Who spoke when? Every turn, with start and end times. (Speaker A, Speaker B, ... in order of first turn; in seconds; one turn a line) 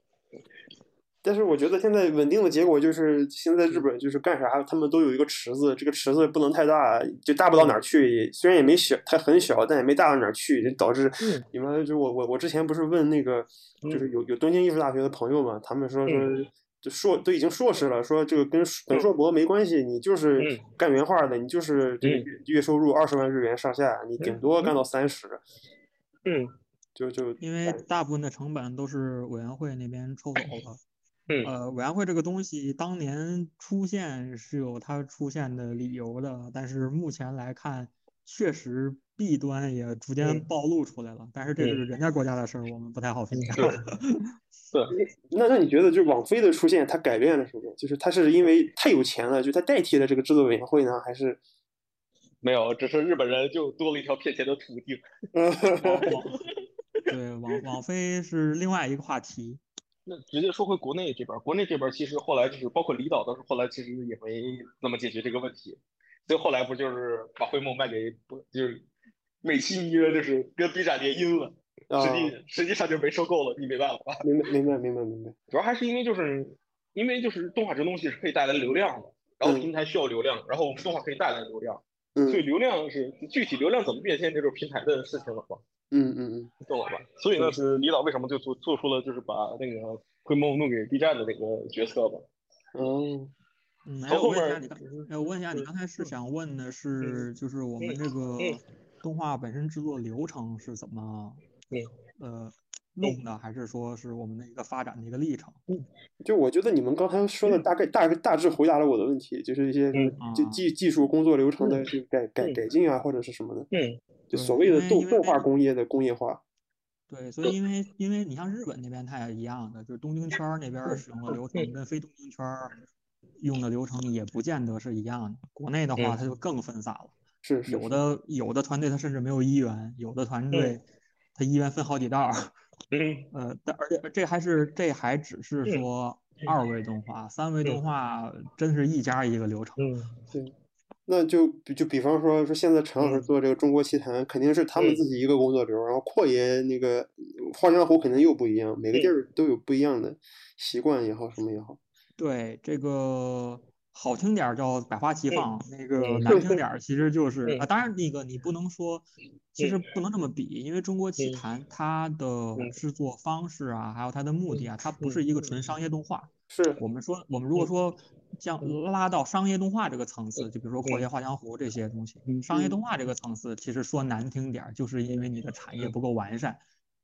Speaker A: 1.2-25.4
Speaker B: 11.2-11.4
Speaker B: 16.1-16.3
Speaker B: 20.4-20.6
Speaker B: 22.0-22.3
Speaker B: 24.2-24.7
Speaker B: 26.2-26.5
Speaker A: 26.9-27.8
Speaker C: 27.4-30.8
Speaker C: 31.4-44.3
Speaker B: 40.2-40.4
Speaker B: 43.3-43.8
Speaker A: 44.9-51.4
Speaker B: 52.4-55.0
Speaker A: 55.3-56.1
Speaker C: 55.8-56.4
Speaker C: 57.0-59.6
Speaker B: 60.0-68.9
Speaker B: 69.4-74.2
Speaker A: 71.9-72.4
Speaker A: 74.2-75.3
Speaker B: 75.5-85.6
Speaker A: 79.4-79.7
Speaker A: 82.2-82.5
Speaker A: 85.9-86.5
Speaker B: 86.6-92.3
Speaker A: 92.7-93.3
Speaker C: 93.8-101.4
Speaker B: 94.1-96.1
Speaker B: 97.8-98.6
Speaker C: 102.2-105.6
Speaker A: 106.2-113.7
Speaker C: 110.2-110.6
Speaker B: 111.6-111.9
Speaker B: 113.7-114.0
Speaker A: 114.3-116.4
Speaker C: 114.3-115.5
Speaker C: 117.1-122.7
Speaker B: 120.8-121.7
Speaker C: 123.4-127.1
Speaker A: 127.4-128.0
Speaker C: 127.7-130.8
Speaker B: 130.5-130.8
Speaker C: 131.3-132.5
Speaker B: 132.9-133.3
Speaker C: 133.3-139.9
Speaker B: 139.8-140.1
Speaker A: 141.1-151.8
Speaker B: 143.0-143.3
Speaker B: 144.8-145.0
Speaker C: 152.2-176.6
Speaker B: 155.3-156.5
Speaker B: 161.2-161.4
Speaker B: 164.5-165.7
Speaker A: 166.5-166.8
Speaker B: 170.4-171.0
Speaker B: 172.3-172.8